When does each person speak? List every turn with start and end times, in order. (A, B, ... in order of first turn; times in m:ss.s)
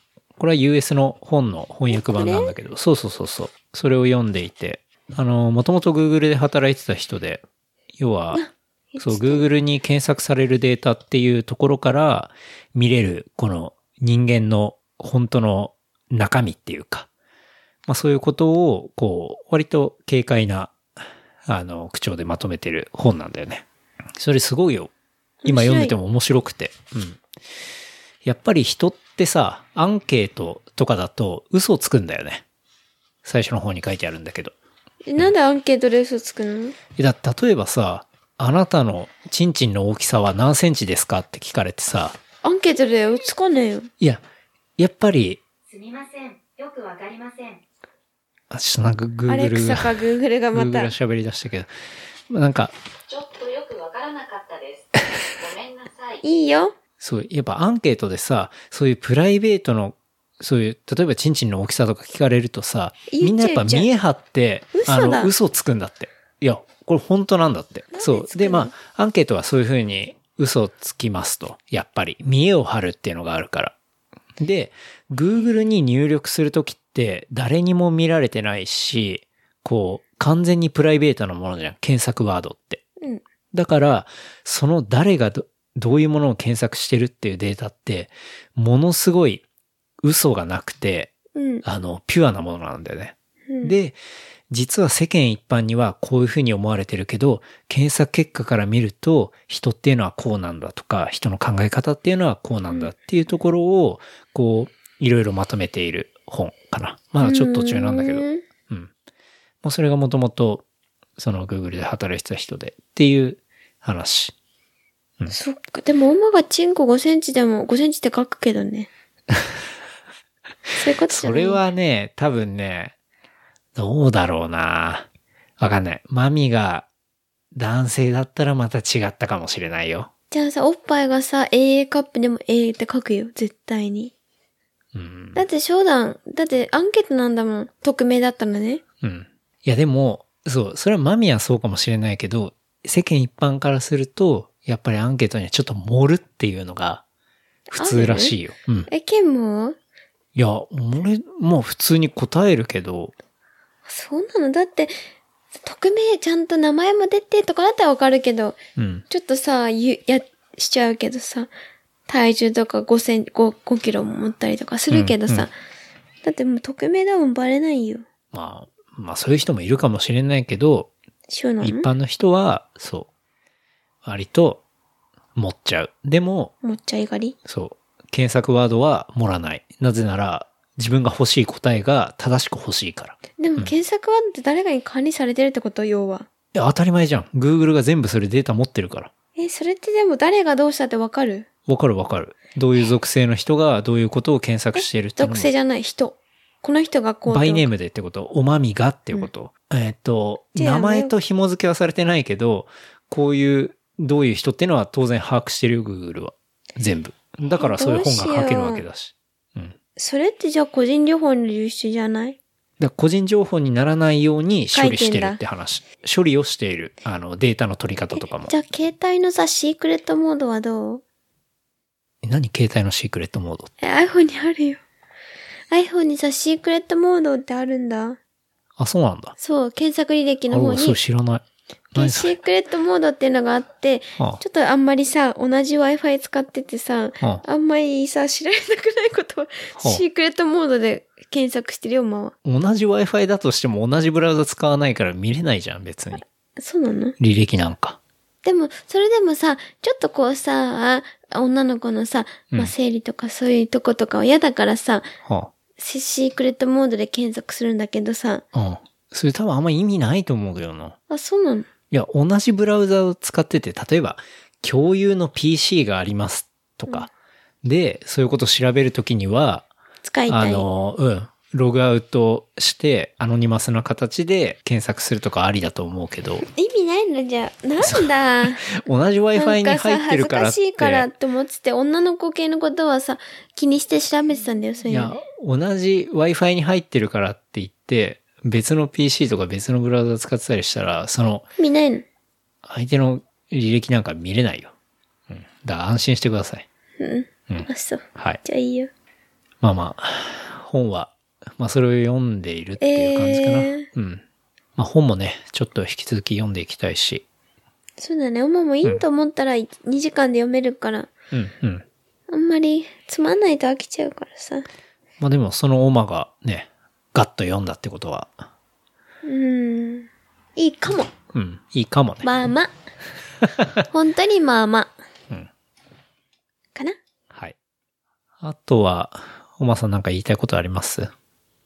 0:00.4-0:07.4 A
0:01.9-0:02.5 B
0:08.0-0:08.4 A
0:08.3-0:09.4 B
0:09.0-0:17.1 A
0:17.8-0:20.8 A
0:21.4-0:23.6 A
0:24.2-0:24.9 A
0:25.4-0:25.9 B
0:25.4-0:27.2 A
0:28.2-0:32.4 A
0:33.2-0:34.5 A
0:35.1-0:36.8 B
0:37.0-0:42.2 A
0:42.4-0:43.9 B
0:44.8-0:45.4 A
0:45.7-0:47.6 C
0:48.5-0:51.7 A
0:49.3-0:50.9 B
0:52.3-0:52.7 A
0:53.1-0:56.2 C
0:56.2-0:56.7 B
0:57.0-1:13.7 A
1:03.1-1:03.9 B
1:04.7-1:05.3 B
1:07.9-1:08.7 B
1:14.4-1:22.8 A
1:23.5-1:29.4 A
1:30.0-1:34.0 A
1:31.3-1:31.6 B
1:33.5-1:33.7 B
1:34.5-1:48.9 A
1:47.2-1:48.4 B
1:49.6-1:50.6 A
1:51.2-1:54.3 A
1:55.3-1:58.9 B
1:59.3-1:59.6 A
2:00.8-2:01.6 B
2:01.1-2:02.9 A
2:03.7-2:05.1 A
2:05.6-2:06.9 A
2:07.5-2:10.1 A
2:10.3-2:14.1 B
2:14.9-2:15.4 A
2:15.3-2:18.8 B
2:19.0-2:27.0 A
2:27.7-2:28.9 A
2:27.7-2:28.3 B
2:28.9-2:29.8 B
2:30.3-2:33.1 A
2:33.8-2:34.9 B
2:35.6-2:41.5 B
2:38.8-2:39.0 A
2:42.1-2:45.5 B
2:44.9-2:45.5 A
2:46.2-2:48.0 B
2:48.3-2:50.9 A
2:51.3-2:51.9 B
2:51.6-2:53.1 A
2:54.0-2:54.6 A
2:55.3-2:56.5 A
2:56.6-2:57.4 B
2:57.4-3:03.7 A
3:03.4-3:06.3 B
3:06.5-3:09.1 A
3:09.4-3:11.5 B
3:11.7-3:15.5 A
3:14.8-3:17.7 B
3:17.3-3:29.8 A
3:20.5-3:21.1 B
3:27.6-3:28.8 B
3:30.0-3:32.4 B
3:32.8-3:38.5 A
3:34.7-3:35.4 B
3:38.2-3:41.0 B
3:42.2-3:43.7 A
3:43.8-3:44.8 B
3:45.7-3:48.2 B
3:48.8-3:49.3 A
3:49.4-3:51.0 B
3:50.5-3:52.4 A
3:51.9-4:02.3 B
3:59.8-4:00.0 A
4:02.4-4:06.2 A
4:06.6-4:07.2 B
4:07.2-4:08.0 A
4:08.4-4:15.1 B
4:15.2-4:15.5 A
4:15.8-4:18.4 B
4:18.5-4:21.0 A
4:21.1-4:21.7 B
4:21.9-4:27.1 A
4:27.6-4:29.7 A
4:30.0-4:30.7 B
4:30.3-4:36.4 A
4:36.5-4:38.7 B
4:37.8-4:41.1 A
4:39.3-4:45.2 B
4:44.8-4:51.4 A
4:51.6-4:52.0 B
4:52.6-4:54.7 A
4:55.3-4:56.6 A
4:57.0-4:58.9 B
4:57.5-4:58.4 A
4:59.6-5:04.2 A
5:02.8-5:03.9 B
5:04.8-5:07.2 A
5:08.0-5:11.1 B
5:11.3-5:11.8 A
5:12.3-5:14.7 B
5:15.2-5:18.4 A
5:19.2-5:21.1 B
5:21.3-5:22.3 A
5:22.2-5:22.7 B
5:23.4-5:23.7 A
5:23.9-5:24.9 B
5:28.4-5:31.1 A